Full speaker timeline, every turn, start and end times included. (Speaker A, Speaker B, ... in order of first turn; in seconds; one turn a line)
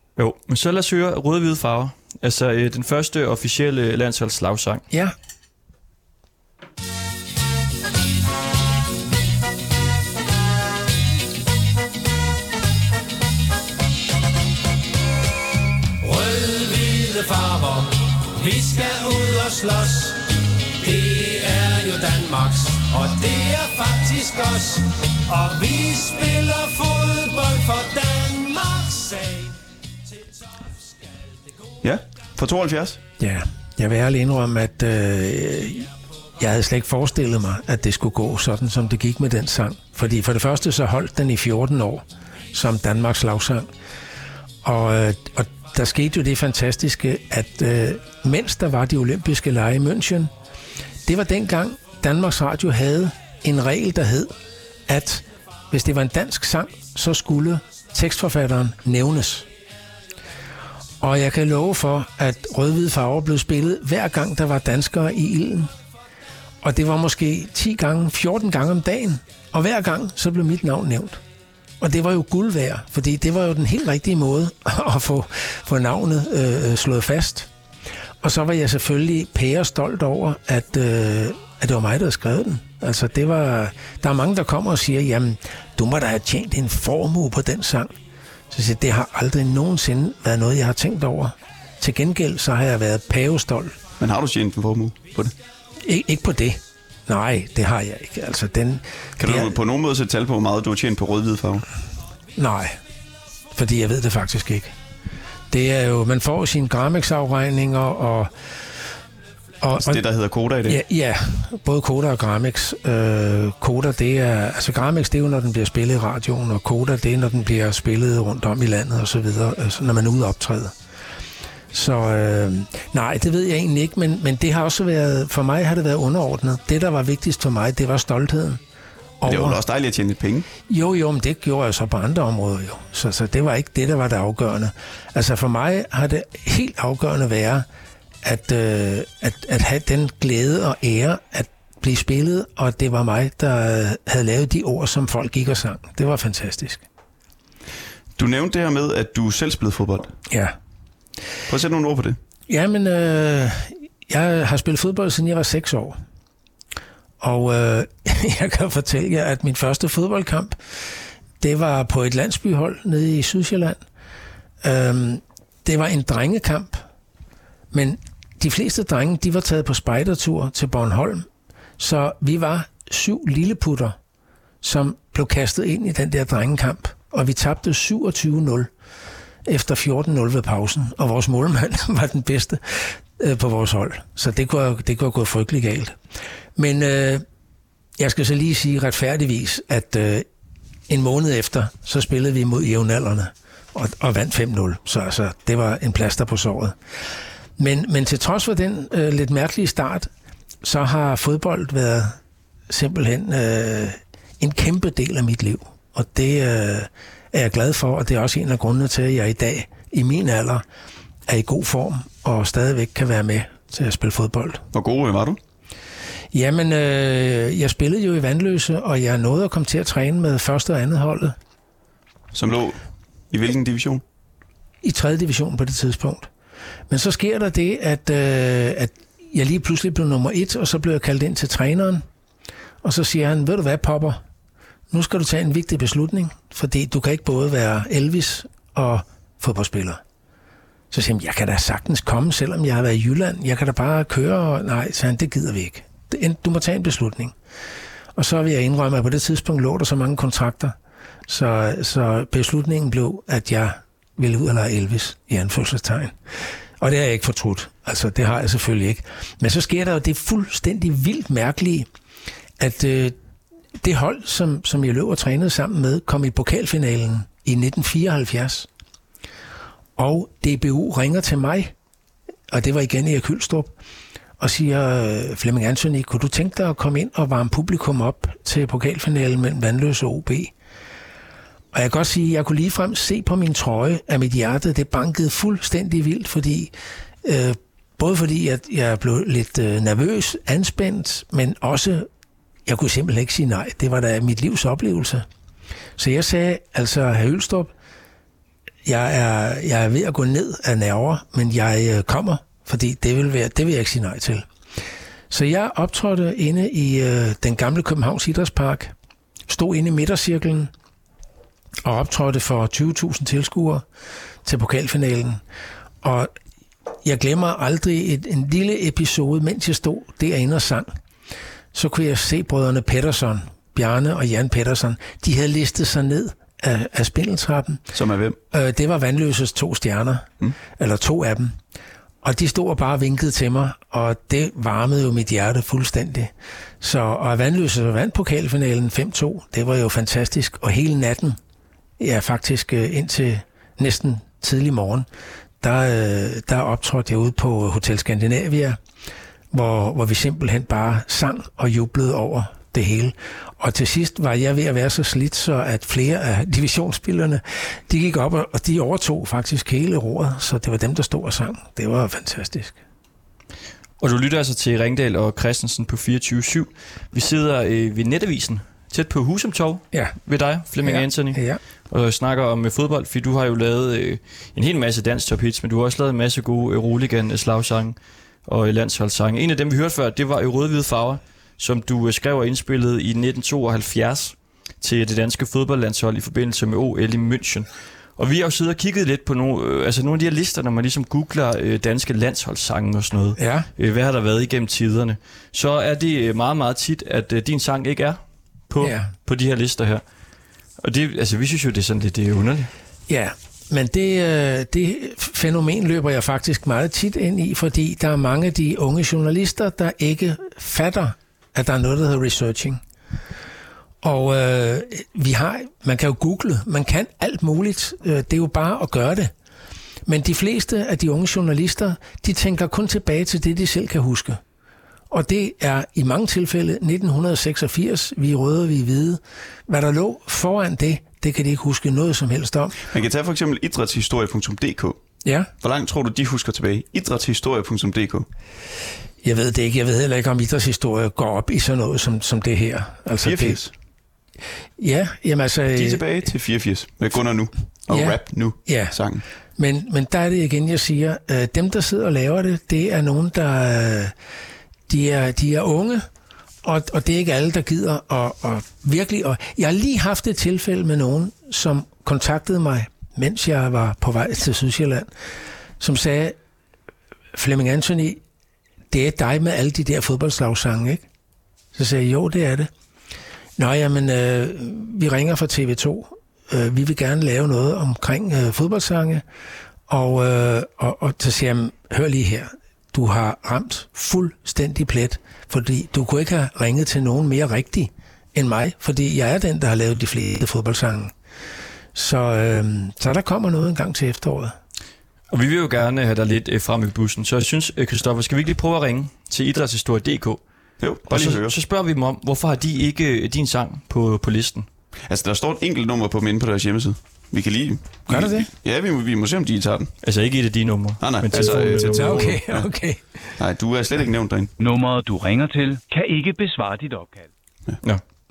Speaker A: 0.2-4.8
Speaker B: 16.0-29.6
Speaker C: 31.8-33.0
Speaker D: 33.2-43.7
Speaker D: 44.6-50.3
Speaker D: 51.0-54.3
Speaker D: 54.9-59.5
Speaker D: 61.0-65.7
Speaker D: 66.6-71.2
Speaker D: 71.8-77.5
Speaker D: 78.2-87.9
Speaker D: 88.5-93.8
Speaker C: 94.0-95.3
Speaker D: 95.8-99.5
Speaker C: 99.2-101.6
Speaker D: 102.3-102.8
Speaker D: 103.5-104.7
Speaker D: 105.5-108.3
Speaker D: 109.6-110.0
Speaker C: 109.8-110.8
Speaker D: 110.7-120.7
Speaker D: 121.7-128.6
Speaker D: 129.2-129.6
Speaker C: 129.2-130.5
Speaker D: 130.7-137.7
Speaker D: 138.2-146.8
Speaker C: 148.2-150.1
Speaker D: 150.3-150.6
Speaker C: 151.5-152.2
Speaker D: 152.5-156.0
Speaker D: 157.2-160.6
Speaker D: 161.4-163.8
Speaker D: 164.6-166.8
Speaker D: 167.7-171.3
Speaker D: 171.8-173.9
Speaker D: 174.6-178.7
Speaker D: 179.4-186.0
Speaker D: 186.6-187.2
Speaker D: 188.0-190.3
Speaker D: 190.9-196.8
Speaker D: 197.6-200.1
Speaker D: 200.6-210.6
Speaker D: 211.3-214.7
Speaker C: 214.7-215.4
Speaker D: 216.3-221.4
Speaker C: 222.3-224.0
Speaker D: 224.8-226.3
Speaker D: 226.9-232.0
Speaker D: 232.8-234.2
Speaker D: 234.9-240.0
Speaker D: 240.9-247.3
Speaker D: 248.2-250.8
Speaker D: 251.3-256.2
Speaker D: 256.8-261.9
Speaker D: 262.6-263.1
Speaker D: 263.8-268.7
Speaker D: 269.9-271.7
Speaker D: 272.5-273.7
Speaker D: 274.4-280.5
Speaker D: 281.7-292.1
Speaker D: 292.6-295.2
Speaker D: 296.0-297.7
Speaker D: 298.8-304.5
Speaker D: 305.3-308.9
Speaker D: 309.5-310.7
Speaker D: 311.8-313.8
Speaker D: 314.4-315.4
Speaker D: 316.0-316.3
Speaker D: 317.0-320.9
Speaker D: 321.7-327.8
Speaker C: 327.9-328.4
Speaker D: 328.5-331.6
Speaker D: 332.2-341.4
Speaker D: 342.0-345.1
Speaker D: 345.6-348.8
Speaker D: 349.5-362.8
Speaker A: 364.0-400.0
Speaker D: 370.8-371.6
Speaker D: 393.4-393.7
Speaker D: 398.8-399.1
Speaker A: 400.8-402.7
Speaker D: 403.1-412.8
Speaker D: 414.0-419.3
Speaker D: 420.1-424.4
Speaker D: 425.1-432.9
Speaker C: 432.9-435.0
Speaker D: 435.2-435.5
Speaker C: 435.6-438.3
Speaker D: 439.2-443.7
Speaker C: 443.2-443.7
Speaker D: 444.8-446.0
Speaker C: 445.7-449.2
Speaker D: 447.9-449.0
Speaker D: 449.6-454.1
Speaker D: 454.9-456.1
Speaker D: 456.6-465.1
Speaker D: 465.8-466.4
Speaker D: 467.3-468.2
Speaker D: 468.9-471.1
Speaker D: 471.7-472.7
Speaker D: 473.6-479.2
Speaker D: 479.9-491.1
Speaker D: 491.9-494.6
Speaker A: 495.3-500.4
Speaker C: 500.8-501.6
Speaker A: 501.1-504.7
Speaker C: 505.1-509.9
Speaker D: 508.1-508.5
Speaker A: 510.0-512.4
Speaker C: 511.0-512.6
Speaker D: 511.3-513.3
Speaker C: 513.4-514.5
Speaker E: 514.6-517.3